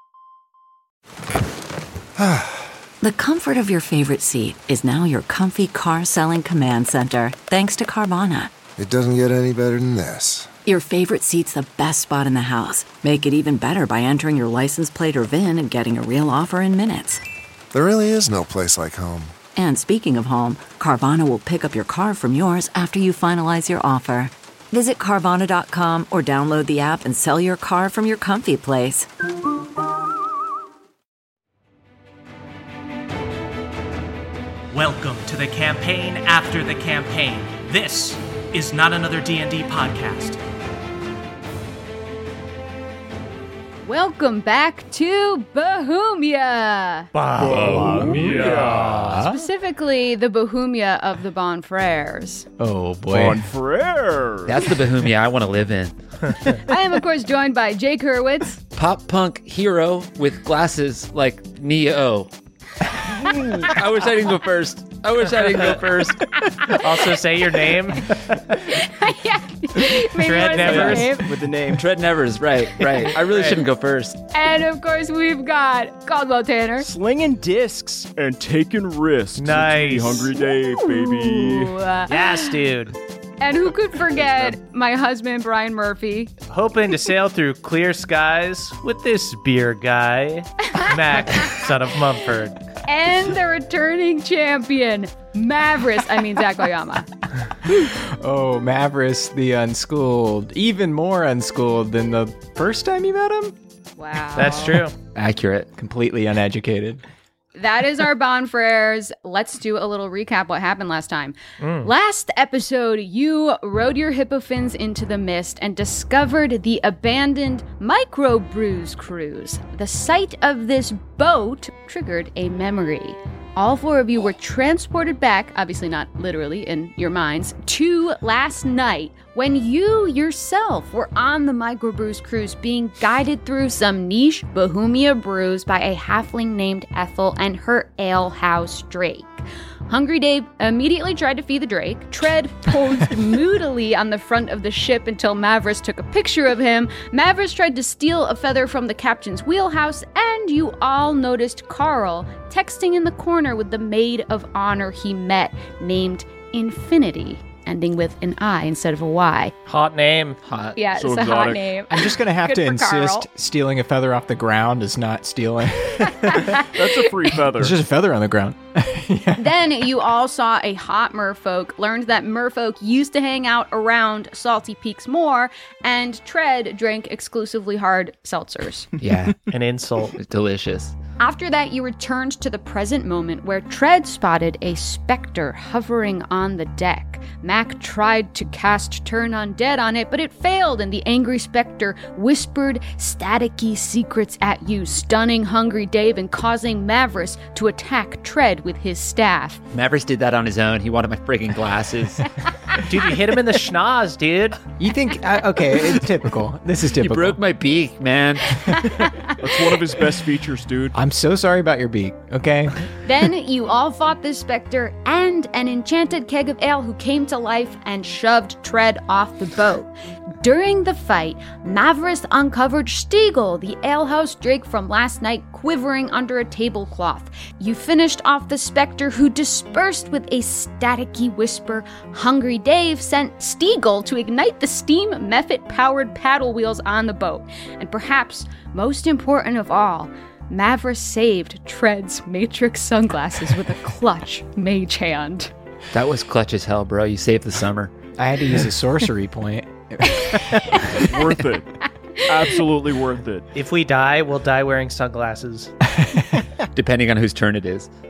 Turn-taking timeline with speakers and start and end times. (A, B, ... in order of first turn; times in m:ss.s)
0:02.2-0:02.6 A
0:03.0-0:08.5 B
0:08.8-0:10.5 A
0:10.7-0:17.2 B
0:17.7-0:19.4 A
0:19.6-0:29.1 B
0:34.7-0:40.4 C
0:43.8-0:47.1 D
0:47.1-0:48.8 C
0:47.4-0:49.4 E
0:47.4-0:48.6 F
0:47.7-0:49.3 G
0:49.1-0:52.5 D
0:52.6-0:53.5 E
0:53.1-0:54.6 F
0:54.5-0:56.0 G
0:56.4-0:58.6 D
0:58.7-1:02.3 G
1:02.8-1:06.3 G
1:06.7-1:08.4 C
1:08.6-1:11.3 D
1:10.2-1:11.2 C
1:10.5-1:11.9 F
1:11.7-1:14.2 G
1:12.8-1:13.6 C
1:14.3-1:16.9 D
1:16.8-1:21.8 F
1:19.4-1:20.3 C
1:20.8-1:22.6 D
1:22.1-1:23.0 C
1:23.4-1:26.3 D
1:24.1-1:24.6 F
1:26.5-1:32.6 C
1:30.8-1:31.5 D
1:32.8-1:37.1 D
1:37.6-1:43.5 E
1:44.0-1:44.9 D
1:44.4-1:45.0 C
1:45.2-1:45.7 G
1:45.8-1:47.0 E
1:47.6-2:39.5 D
1:51.6-1:51.9 C
2:39.7-2:40.4 C
2:40.4-2:40.8 G
2:40.8-2:43.3 D
2:41.0-2:41.6 F
2:41.9-2:46.7 E
2:46.1-2:46.7 D
2:46.7-2:47.8 F
2:47.5-2:49.6 E
2:49.4-2:58.9 D
2:59.0-2:59.4 G
2:59.5-3:00.1 C
3:00.2-3:00.9 G
3:01.2-3:19.6 D
3:19.7-3:22.2 G
3:22.8-3:24.6 C
3:24.8-3:27.4 E
3:27.0-3:28.8 G
3:29.4-3:31.0 F
3:30.9-3:32.9 E
3:33.0-4:05.5 D
4:05.9-4:07.9 G
4:08.2-4:10.9 E
4:10.1-4:11.0 D
4:11.0-4:11.7 F
4:12.2-4:12.6 D
4:12.3-4:13.4 F
4:13.6-4:15.7 C
4:16.0-4:16.4 E
4:16.8-4:17.9 G